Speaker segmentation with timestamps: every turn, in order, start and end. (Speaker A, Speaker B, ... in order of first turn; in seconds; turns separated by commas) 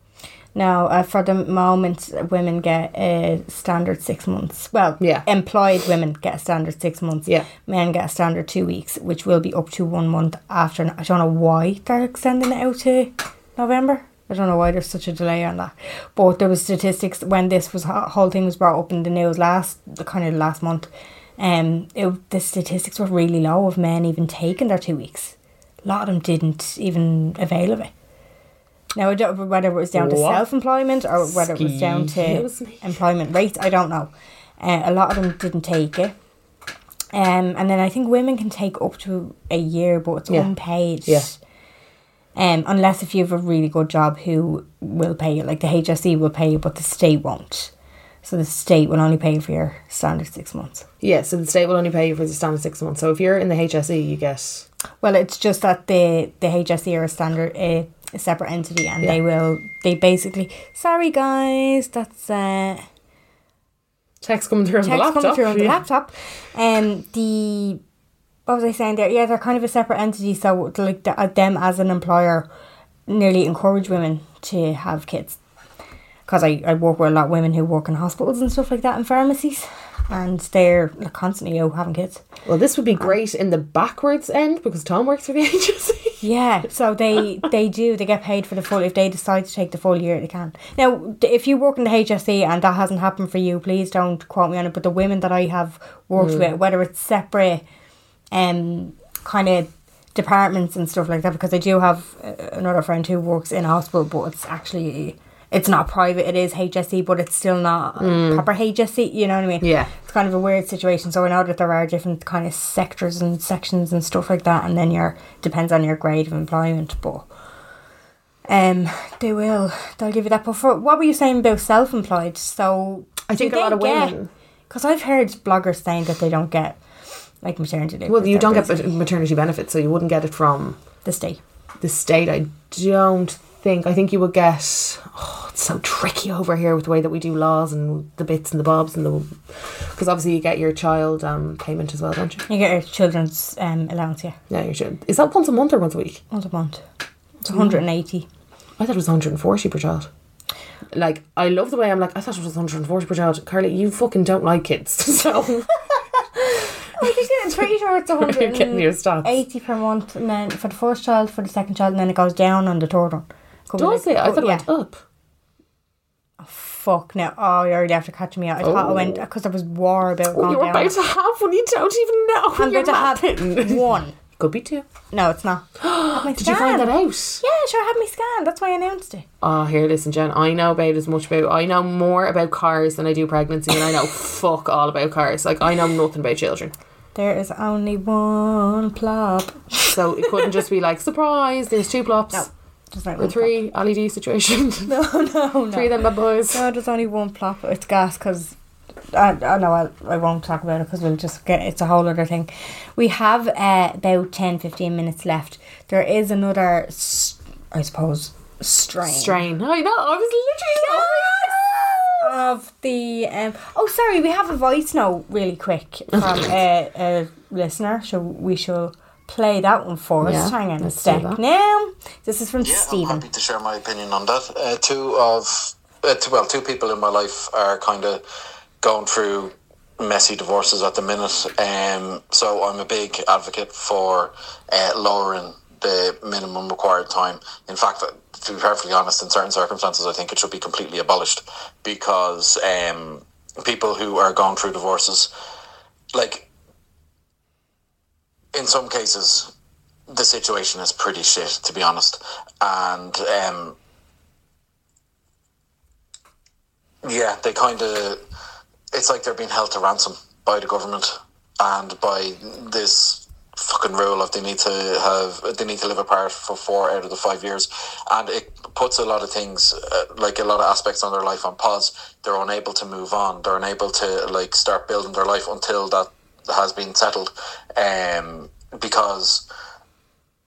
Speaker A: 0.5-27.9, Speaker B: 5.0-5.2, Speaker A: 28.9-36.1, Speaker B: 29.9-30.4, Speaker B: 31.2-33.0, Speaker A: 37.1-41.4, Speaker B: 41.0-41.3, Speaker A: 42.4-47.7, Speaker A: 48.2-50.9, Speaker B: 51.0-54.6, Speaker A: 55.0-62.8, Speaker B: 64.2-65.8, Speaker A: 64.8-67.8, Speaker A: 68.5-72.5, Speaker A: 73.1-75.4, Speaker A: 76.3-82.2, Speaker B: 82.5-86.2, Speaker A: 86.2-97.6, Speaker B: 96.2-96.5, Speaker A: 98.3-117.3, Speaker B: 108.0-108.5, Speaker B: 109.6-109.9, Speaker A: 118.5-124.2, Speaker B: 123.3-124.3, Speaker A: 124.7-126.8, Speaker A: 127.4-128.9, Speaker B: 128.1-130.8, Speaker A: 131.0-131.4, Speaker B: 131.8-142.4, Speaker A: 142.5-144.4, Speaker B: 144.5-146.2, Speaker A: 146.3-146.8, Speaker A: 147.4-148.3, Speaker B: 147.5-147.8, Speaker B: 148.8-150.1, Speaker B: 150.9-155.7, Speaker A: 156.4-164.7, Speaker B: 157.0-157.7, Speaker B: 158.2-159.3, Speaker B: 163.8-165.0, Speaker A: 166.4-170.9, Speaker B: 168.6-169.2, Speaker B: 170.3-174.9, Speaker A: 172.6-174.2, Speaker A: 175.1-179.2, Speaker B: 175.8-177.4, Speaker B: 179.4-186.7, Speaker A: 187.1-190.5, Speaker B: 189.9-192.5, Speaker A: 192.3-193.6, Speaker B: 193.2-194.9, Speaker A: 194.9-195.9, Speaker B: 195.7-196.7, Speaker A: 196.5-198.5, Speaker A: 199.1-209.4, Speaker B: 209.0-212.3, Speaker A: 210.8-211.6, Speaker A: 212.2-223.2, Speaker B: 220.2-221.4, Speaker C: 222.6-228.2, Speaker C: 228.8-245.3, Speaker C: 246.1-246.5, Speaker C: 248.5-249.5, Speaker C: 250.1-253.8, Speaker C: 257.0-258.2, Speaker C: 258.9-279.4